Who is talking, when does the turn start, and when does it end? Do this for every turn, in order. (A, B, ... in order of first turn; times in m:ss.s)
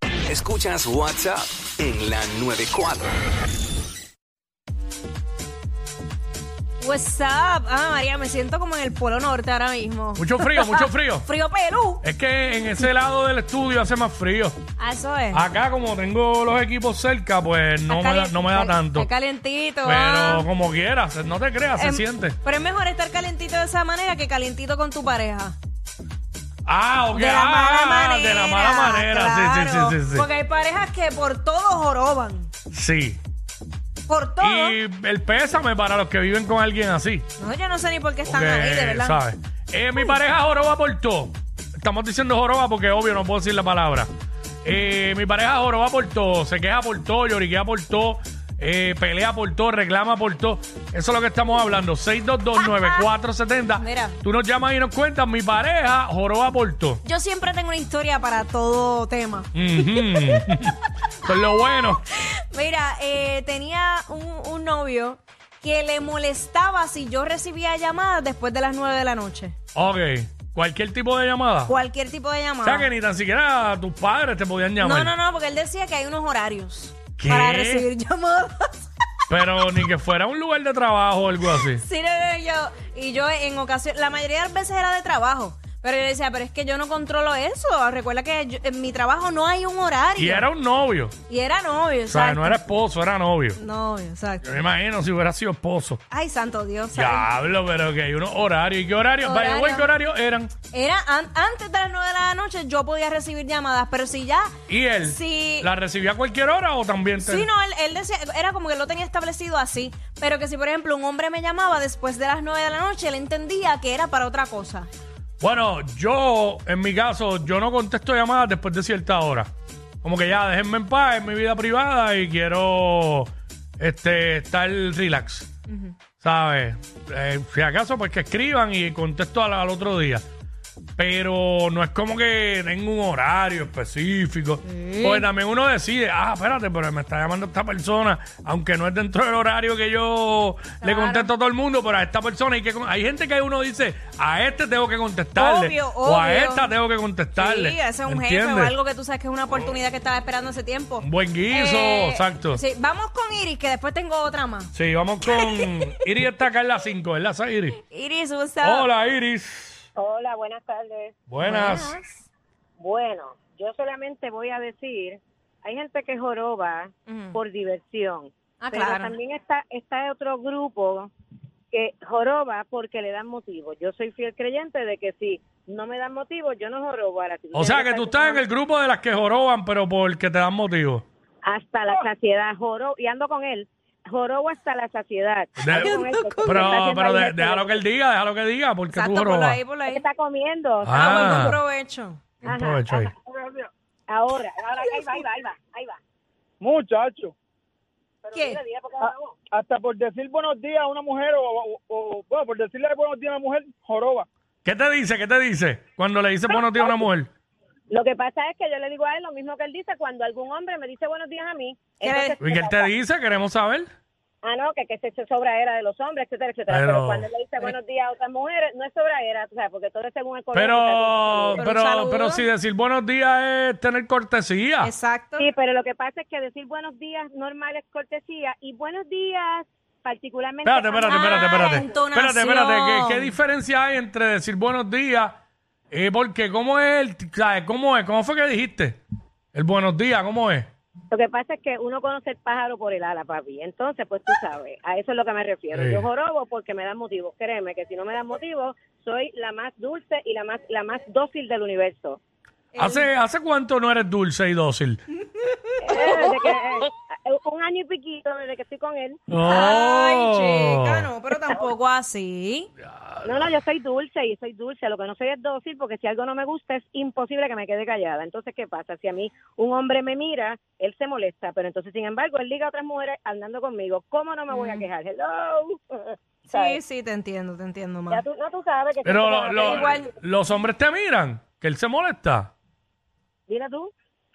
0:00.2-0:03.2 A
0:06.8-0:12.0 B
0:10.2-0:11.3 C
0:12.0-0:14.6 C
0:14.8-0:15.4 B
0:15.3-0:19.1 C
0:17.9-0:20.5 B
0:19.8-0:22.4 C
0:21.7-0:25.6 B
0:26.6-0:30.2 C
0:27.1-0:32.5 B
0:32.7-0:33.2 C
0:34.1-0:34.8 B
0:34.4-0:37.3 C
0:37.4-0:39.2 B
0:38.2-0:44.1 C
0:44.6-0:57.0 C
0:52.6-0:53.0 B
0:53.8-0:54.2 B
0:57.0-1:00.7 B
0:59.5-1:02.0 C
1:01.6-1:09.6 B
1:09.7-1:11.7 C
1:11.7-1:12.9 B
1:12.6-1:15.1 C
1:14.8-1:18.8 B
1:17.2-1:17.9 C
1:19.3-1:21.8 C
1:21.5-1:30.5 B
1:30.2-1:31.1 C
1:31.3-1:32.6 B
1:32.1-1:33.6 C
1:33.6-1:34.4 B
1:34.4-1:36.0 C
1:36.1-1:37.3 B
1:36.9-1:40.5 C
1:39.2-1:39.9 B
1:40.7-1:44.5 B
1:44.7-1:47.5 C
1:45.0-1:45.7 B
1:47.2-1:54.9 B
1:55.4-1:59.5 C
2:00.0-2:05.5 C
2:05.7-2:06.0 B
2:06.2-2:10.2 C
2:11.0-2:28.7 C
2:14.6-2:15.3 B
2:20.8-2:21.3 B
2:25.4-2:26.7 B
2:27.4-2:34.7 B
2:31.0-2:32.6 C
2:34.7-2:37.8 C
2:35.3-2:35.9 B
2:37.8-2:38.9 B
2:38.6-2:39.8 C
2:40.0-2:41.1 D
2:41.3-2:42.0 C
2:41.4-2:42.3 B
2:42.8-2:51.1 D
2:47.1-2:47.4 B
2:48.6-2:49.1 B
2:51.7-2:58.4 D
2:57.5-3:01.0 C
3:01.4-3:07.8 D
3:05.6-3:09.6 C
3:05.6-3:06.8 B
3:08.9-3:10.0 B
3:09.9-3:11.4 D
3:10.8-3:11.6 C
3:10.9-3:12.2 B
3:12.4-3:13.1 C
3:12.4-3:13.1 D
3:13.2-3:13.7 E
3:14.1-3:16.0 D
3:16.6-3:17.3 E
3:18.2-3:19.3 D
3:18.3-3:18.6 B
3:19.5-3:24.3 E
3:24.6-3:27.3 C
3:26.5-3:26.8 D
3:27.9-3:32.9 D
3:32.0-3:32.3 B
3:32.4-3:33.9 C
3:34.4-3:41.6 D
3:36.7-3:37.3 C
3:40.5-3:44.9 C
3:41.6-3:42.5 B
3:44.8-3:45.4 B
3:45.4-3:51.9 D
3:50.6-3:55.4 C
3:51.0-3:53.4 B
3:55.9-3:59.0 C
3:59.5-4:00.7 C
4:01.1-4:12.2 D
4:05.7-4:06.0 C
4:12.7-4:13.1 B
4:12.8-4:15.0 C
4:15.4-4:16.4 B
4:15.8-4:19.2 D
4:19.3-4:21.1 C
4:19.4-4:22.7 B
4:22.9-4:23.5 C
4:23.2-4:36.8 D
4:34.5-4:34.9 B
4:36.5-4:38.2 B
4:38.1-4:40.0 D
4:39.0-4:42.5 C
4:39.6-4:40.1 B
4:43.5-4:43.9 D